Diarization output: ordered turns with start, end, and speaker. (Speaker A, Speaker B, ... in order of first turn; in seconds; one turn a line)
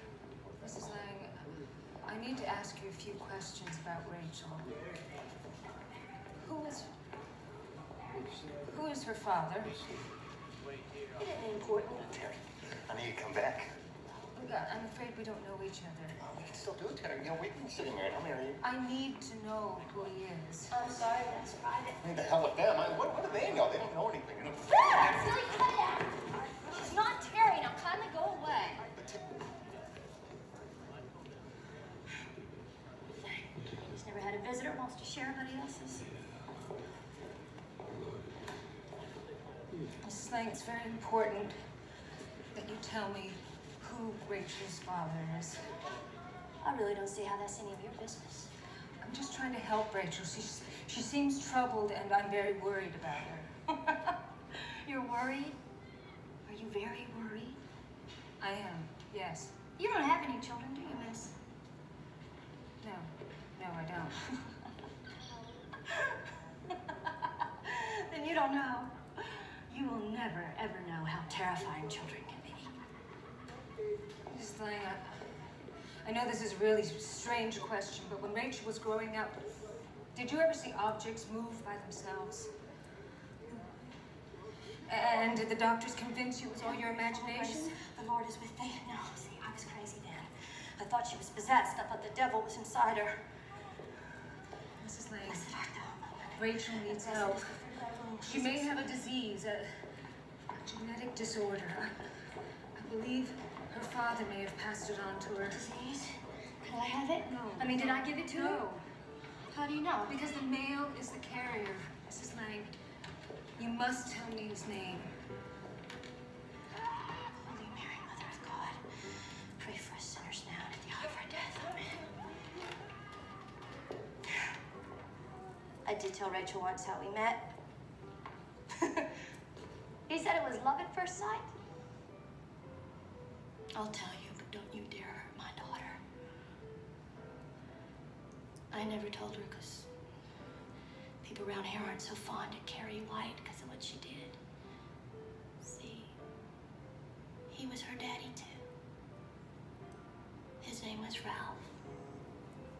Speaker A: 0.6-1.4
Speaker A: 2.0-4.8
Speaker A: 6.3-6.9
Speaker A: 8.4-9.8
Speaker B: 11.2-12.2
Speaker C: 12.3-13.7
Speaker A: 14.3-16.2
Speaker C: 16.2-18.6
Speaker A: 18.6-20.7
Speaker B: 20.7-22.0
Speaker C: 22.0-25.1
Speaker B: 24.9-28.8
Speaker B: 33.2-36.0
Speaker A: 40.0-41.5
Speaker A: 42.5-45.6
Speaker B: 46.6-48.5
Speaker A: 49.0-53.9
Speaker B: 54.6-55.6
Speaker B: 56.4-57.6
Speaker A: 58.4-59.5
Speaker B: 59.8-61.4
Speaker A: 62.8-64.5
Speaker B: 67.6-72.7
Speaker A: 74.2-75.2
Speaker A: 76.0-79.5
Speaker A: 80.1-82.5
Speaker A: 84.9-87.8
Speaker B: 87.1-93.2
Speaker A: 94.8-95.4
Speaker B: 95.3-99.0
Speaker A: 96.3-97.4
Speaker A: 98.2-99.8
Speaker A: 100.5-102.0
Speaker A: 102.7-105.6
Speaker B: 105.5-108.7
Speaker A: 107.2-108.8
Speaker B: 109.5-110.1
Speaker A: 110.0-112.7
Speaker A: 113.6-115.1
Speaker B: 117.3-122.1
Speaker B: 125.8-127.5
Speaker B: 130.1-131.5
Speaker B: 133.8-136.0
Speaker B: 138.7-139.9
Speaker B: 141.2-144.4
Speaker B: 145.6-146.2
Speaker B: 147.5-148.6
Speaker B: 150.6-151.7